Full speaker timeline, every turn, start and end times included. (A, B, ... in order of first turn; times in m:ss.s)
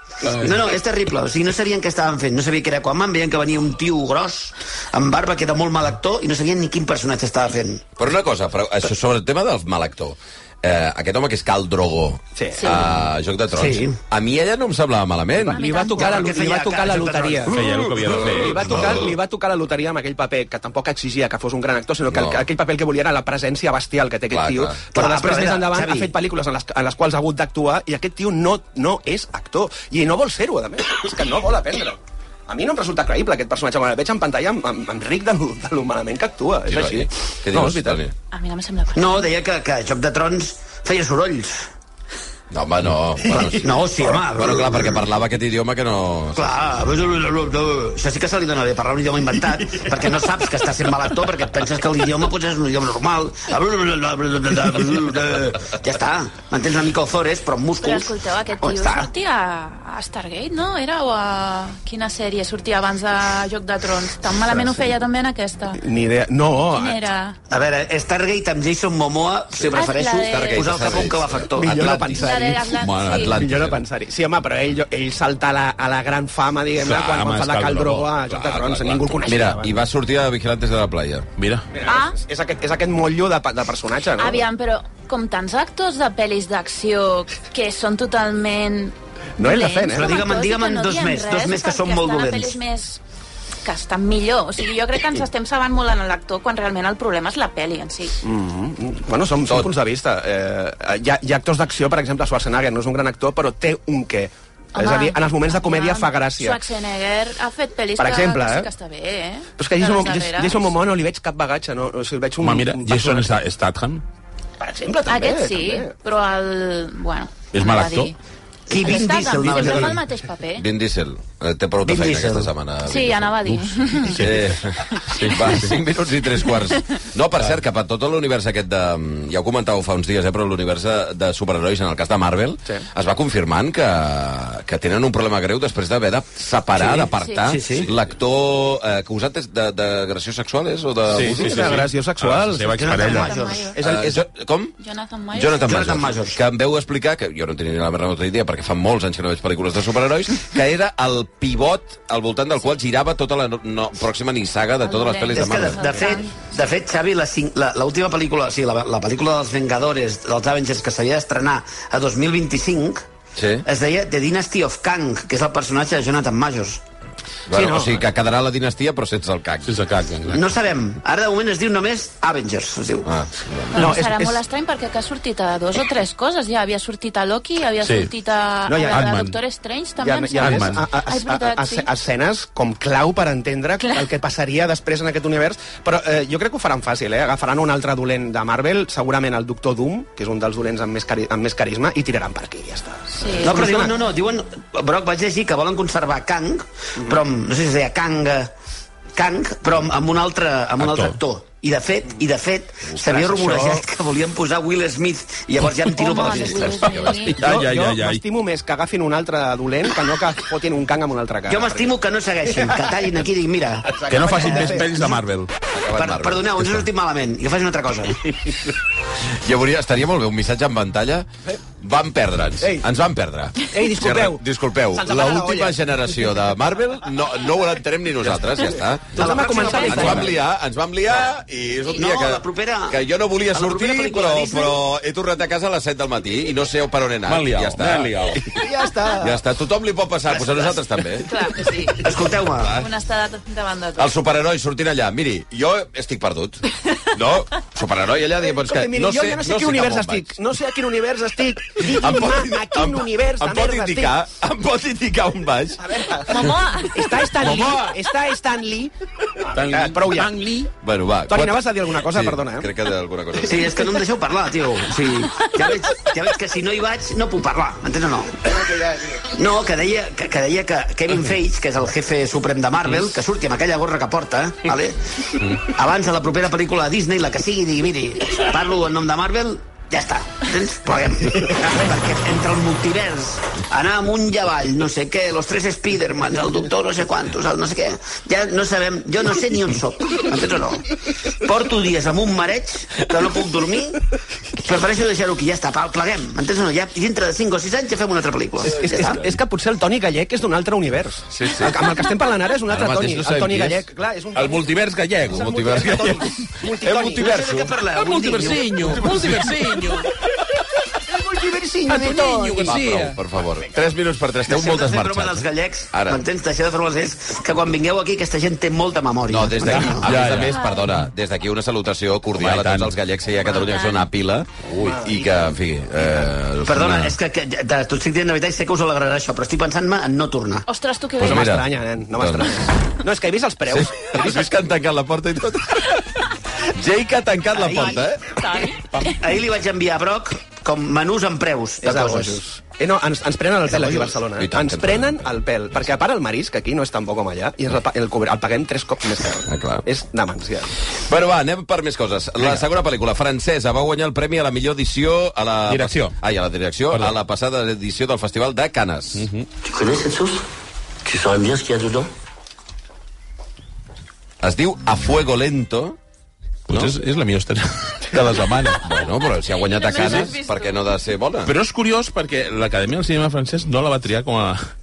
0:00.2-0:07.9 A
0:08.0-0:15.6 B
0:12.4-0:12.6 C
0:12.6-0:12.9 D
0:13.5-0:14.0 A
0:15.4-0:17.6 C
0:15.5-0:16.4 D
0:15.9-0:17.8 A
0:17.5-0:18.9 E
0:18.2-0:38.0 C
0:18.7-0:19.0 B
0:22.1-0:22.4 B
0:24.3-0:24.8 B
0:24.9-0:26.1 A
0:36.7-0:38.1 B
0:38.3-0:39.3 D
0:39.0-0:41.7 A
0:42.5-0:46.7 B
0:43.4-0:45.1 A
0:46.4-0:59.1 A
0:57.8-1:05.8 D
1:04.5-1:04.8 C
1:05.8-1:07.0 C
1:06.7-1:07.4 D
1:07.5-1:12.1 A
1:09.6-1:11.2 D
1:10.3-1:13.8 B
1:11.6-1:12.7 C
1:12.2-1:13.4 D
1:12.8-1:13.4 E
1:13.2-1:19.8 C
1:16.8-1:19.2 E
1:19.2-1:21.3 B
1:21.4-1:21.7 E
1:21.7-1:24.5 C
1:21.8-1:22.2 D
1:24.2-1:33.0 D
1:29.4-1:30.2 C
1:29.9-1:32.6 A
1:33.6-1:38.2 D
1:38.2-1:46.6 C
1:44.8-1:50.7 D
1:48.0-1:48.7 C
1:49.6-1:53.3 C
1:52.4-1:54.0 E
1:54.6-1:55.9 C
1:55.1-1:58.2 D
1:57.5-1:58.1 E
1:58.7-2:00.0 A
1:58.7-2:00.7 D
2:00.6-2:03.4 B
2:01.8-2:02.5 A
2:02.9-2:04.3 D
2:03.5-2:04.5 E
2:04.1-2:21.8 B
2:05.1-2:05.8 E
2:16.8-2:17.0 C
2:17.2-2:17.6 D
2:17.4-2:17.9 A
2:21.1-2:23.3 E
2:21.3-2:24.2 C
2:22.8-2:23.7 A
2:23.0-2:23.8 D
2:23.8-2:24.8 B
2:24.8-2:26.0 D
2:25.3-2:36.0 B
2:25.6-2:26.4 A
2:34.8-2:36.5 D
2:35.3-2:43.0 A
2:43.4-2:43.6 B
2:43.6-2:46.8 A
2:47.5-2:49.8 B
2:47.5-2:48.0 C
2:49.7-2:50.4 E
2:50.3-2:53.1 A
2:53.0-2:54.0 B
2:53.7-3:01.9 D
2:53.8-2:54.4 C
2:57.8-2:58.1 E
2:58.7-2:59.1 C
2:58.9-2:59.4 E
3:00.0-3:14.0 C
3:00.4-3:00.8 E
3:13.1-3:13.6 D
3:13.4-3:18.5 A
3:19.2-3:27.0 A
3:20.8-3:21.2 E
3:23.1-3:23.8 C
3:25.9-3:27.4 D
3:26.5-3:27.2 B
3:27.0-3:28.2 E
3:27.4-3:31.9 C
3:31.5-3:35.2 A
3:33.9-3:34.9 C
3:34.1-3:35.5 E
3:35.7-3:36.9 B
3:35.9-3:38.5 A
3:39.4-3:41.3 B
3:41.8-3:58.5 B
3:43.7-3:45.8 C
3:48.2-3:50.4 C
3:49.2-3:50.3 A
3:49.6-3:50.0 D
3:51.9-3:54.8 A
3:57.3-3:58.5 E
3:58.6-3:59.4 C
3:59.2-4:01.3 B
4:01.2-4:02.0 D
4:02.0-4:02.8 A
4:02.6-4:02.9 B
4:02.8-4:04.1 D
4:04.0-4:10.4 B
4:08.5-4:14.2 C
4:11.8-4:16.5 B
4:15.8-4:16.4 C
4:16.3-4:17.0 D
4:16.9-4:18.9 C
4:17.4-4:17.9 E
4:19.5-4:20.7 E
4:19.5-4:20.3 C
4:20.8-4:23.8 B
4:21.3-4:22.7 C
4:23.4-4:28.6 A
4:29.2-4:54.0 A
4:54.6-4:59.2 A
4:58.7-5:04.7 C
5:01.3-5:01.9 B
5:02.7-5:03.8 B
5:04.4-5:06.3 E
5:05.3-5:06.3 B
5:05.3-5:07.4 C
5:06.8-5:07.7 B
5:06.9-5:09.0 A
5:08.0-5:10.1 E
5:11.1-5:12.8 C
5:11.9-5:13.2 E
5:12.6-5:16.2 B
5:14.5-5:20.1 A
5:19.3-5:27.2 B
5:19.6-5:20.6 E
5:20.4-5:20.9 D
5:22.4-5:23.0 E
5:23.4-5:24.1 D
5:24.8-5:25.5 C
5:26.6-5:30.7 A
5:30.7-5:31.6 D
5:31.2-5:32.7 B
5:31.2-5:34.5 C
5:33.7-5:36.0 B
5:36.6-5:38.4 B
5:37.6-5:39.2 D
5:39.0-5:42.4 A
5:41.8-5:50.7 C
5:44.4-5:45.3 B
5:49.5-5:49.8 B
5:51.1-5:59.3 B
5:52.4-5:52.6 E
5:55.7-5:56.2 E
5:59.2-5:59.5 E
5:59.6-6:00.4 F
6:01.0-6:02.1 F
6:04.4-6:06.0 B
6:06.7-6:08.8 E
6:08.8-6:11.6 B
6:09.0-6:10.9 D
6:10.0-6:10.3 E
6:11.5-6:14.6 E